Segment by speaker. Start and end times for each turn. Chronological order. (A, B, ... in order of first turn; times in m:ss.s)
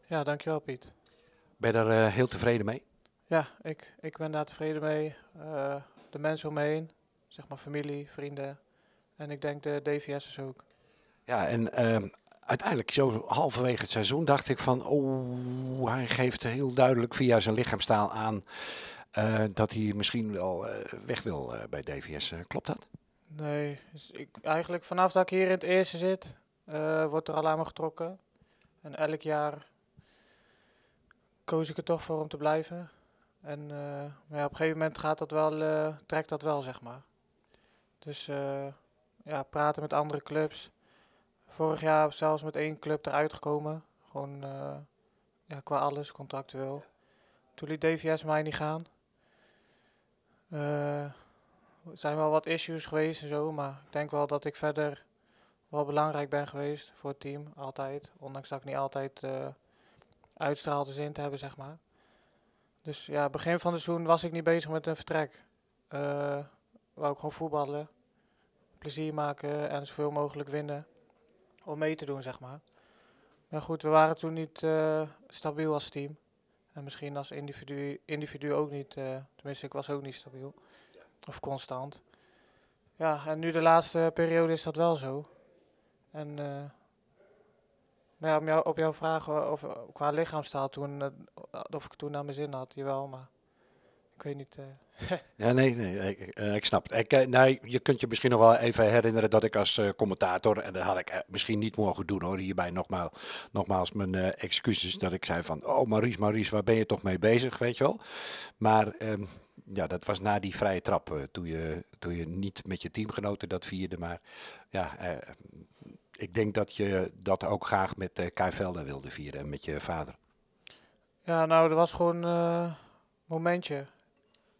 0:00.1-0:01.0 A
0:01.6-0:02.8 B
0:03.3-0:10.6 A
0:11.3-0:22.8 B
0:23.3-0:29.7 A
0:31.4-0:37.2 A
0:38.0-0:40.9 A
0:41.4-0:48.9 A
0:50.5-1:22.4 A
1:23.0-1:25.5 A
1:26.1-1:26.9 A
1:28.2-1:35.2 A
1:35.4-2:00.2 B
2:01.2-2:04.2 A